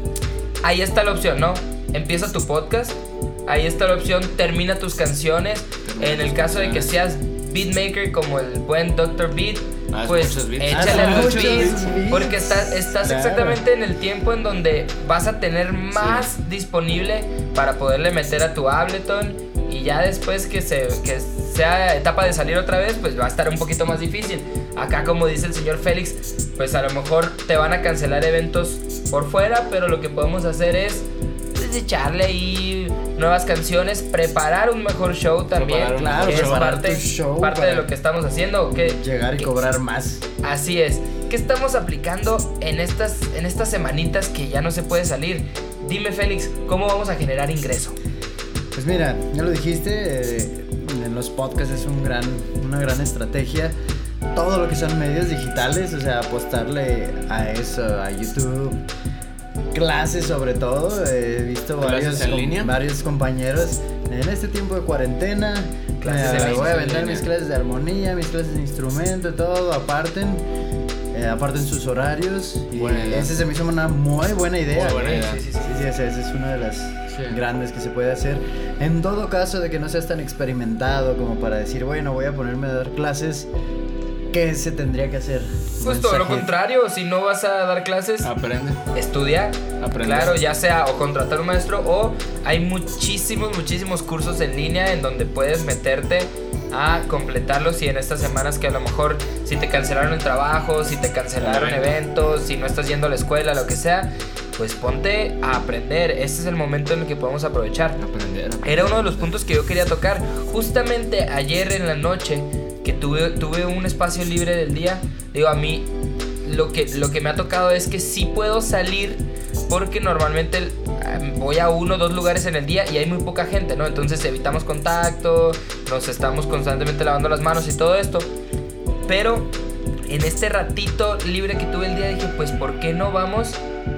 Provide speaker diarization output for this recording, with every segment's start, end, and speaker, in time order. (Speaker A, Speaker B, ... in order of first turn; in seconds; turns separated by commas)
Speaker A: 0.6-39.5, Speaker B: 5.8-6.9, Speaker B: 9.9-11.9, Speaker C: 10.7-13.6, Speaker B: 15.9-16.2, Speaker B: 35.5-36.6, Speaker C: 36.0-37.9, Speaker C: 38.8-40.2, Speaker A: 40.4-48.0, Speaker C: 48.7-53.7, Speaker C: 54.3-58.8, Speaker C: 59.7-70.5, Speaker B: 61.8-62.7, Speaker A: 66.0-67.2, Speaker B: 66.2-67.2, Speaker C: 71.1-83.5, Speaker B: 72.7-73.3, Speaker B: 74.7-75.4, Speaker A: 75.1-75.7, Speaker B: 77.1-77.4, Speaker C: 84.3-86.5, Speaker A: 85.8-88.3, Speaker B: 88.2-88.8, Speaker A: 88.9-108.0, Speaker B: 89.8-90.4, Speaker B: 101.4-102.0, Speaker B: 108.0-109.3, Speaker A: 108.6-115.9, Speaker A: 116.4-128.3, Speaker A: 129.1-129.5, Speaker A: 130.1-133.6